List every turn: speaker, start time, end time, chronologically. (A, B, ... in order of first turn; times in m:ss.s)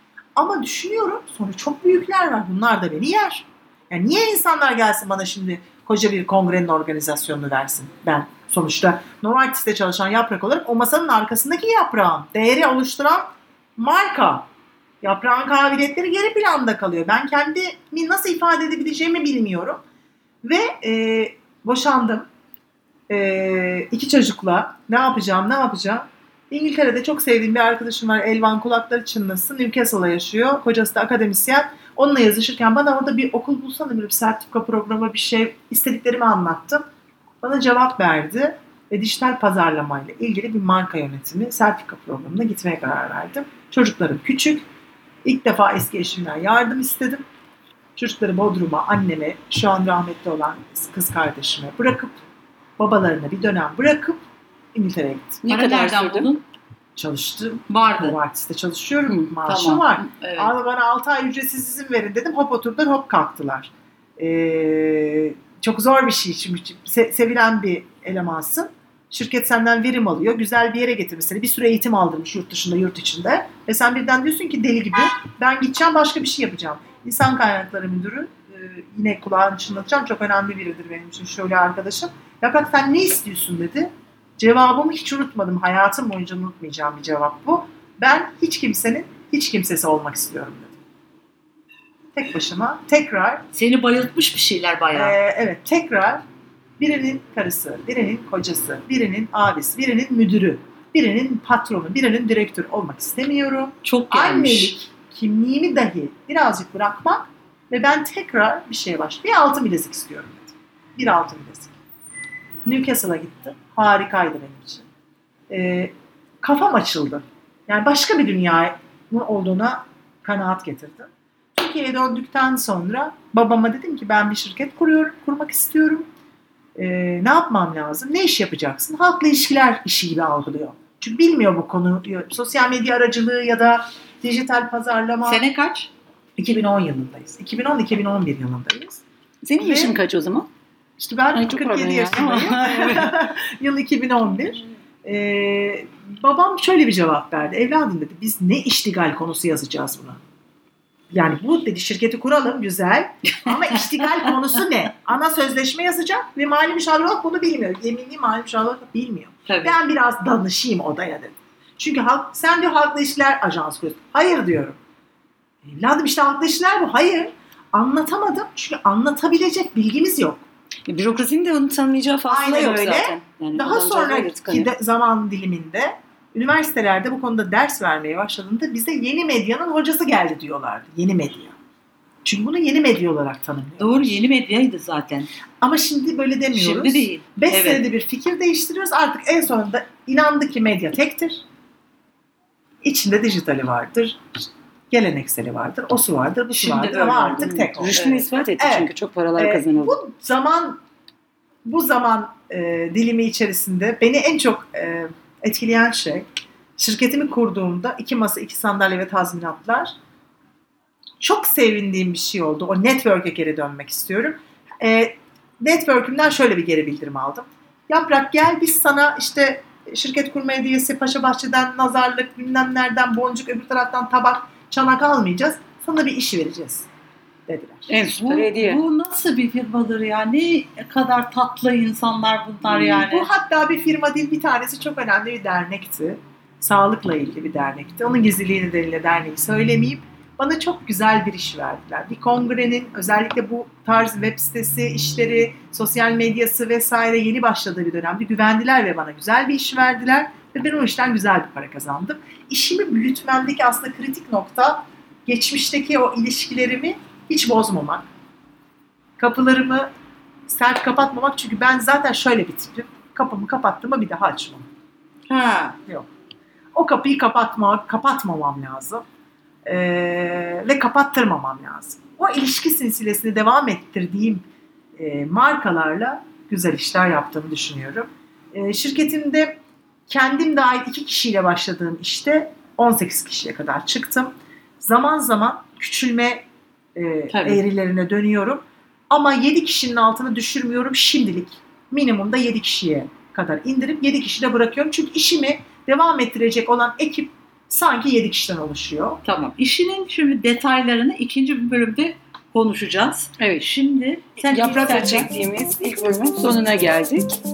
0:00.4-0:14.5 A
0:15.0-0:19.8 A
0:20.4-0:22.3 A
0:23.1-0:36.8 A
0:37.4-0:44.6 A
0:45.2-0:47.2 A
0:48.0-0:52.2 A
0:52.8-0:54.2 A
0:54.7-0:55.4 A
0:55.4-0:56.3 B
0:55.4-0:56.4 C
0:57.0-1:30.8 A
0:57.7-0:58.2 C
0:59.2-1:00.5 C
1:32.1-1:33.5 A
1:33.5-1:35.2 C
1:34.9-1:36.2 A
1:36.8-1:51.7 A
1:43.8-1:44.7 C
1:52.6-1:54.9 A
1:55.5-2:06.1 A
2:06.8-2:15.4 A
2:15.2-2:15.9 C
2:16.4-2:19.0 A
2:19.4-2:20.5 B
2:19.6-2:19.9 A
2:21.0-2:30.2 A
2:21.3-2:23.2 B
2:31.1-2:44.8 A
2:39.5-2:39.8 C
2:45.6-2:50.4 A
2:50.9-2:54.7 B
2:52.3-3:01.6 A
3:02.2-3:04.2 A
3:03.8-3:05.3 C
3:05.6-3:11.4 A
3:06.5-3:07.8 C
3:12.8-3:18.0 A
3:16.5-3:18.3 C
3:17.4-3:20.0 B
3:18.6-3:20.8 A
3:21.6-3:30.0 A
3:31.2-3:46.9 A
3:47.5-3:47.9 A
3:47.9-3:48.8 B
3:48.1-3:53.3 C
3:52.7-4:18.1 A
4:19.2-4:19.9 A
4:20.5-4:24.7 A
4:25.3-4:25.8 C
4:26.7-4:29.0 A
4:29.6-4:34.4 A
4:35.0-4:59.2 A
4:47.3-4:47.6 C
4:59.2-5:05.3 C
5:03.4-5:03.7 B
5:04.5-5:07.4 B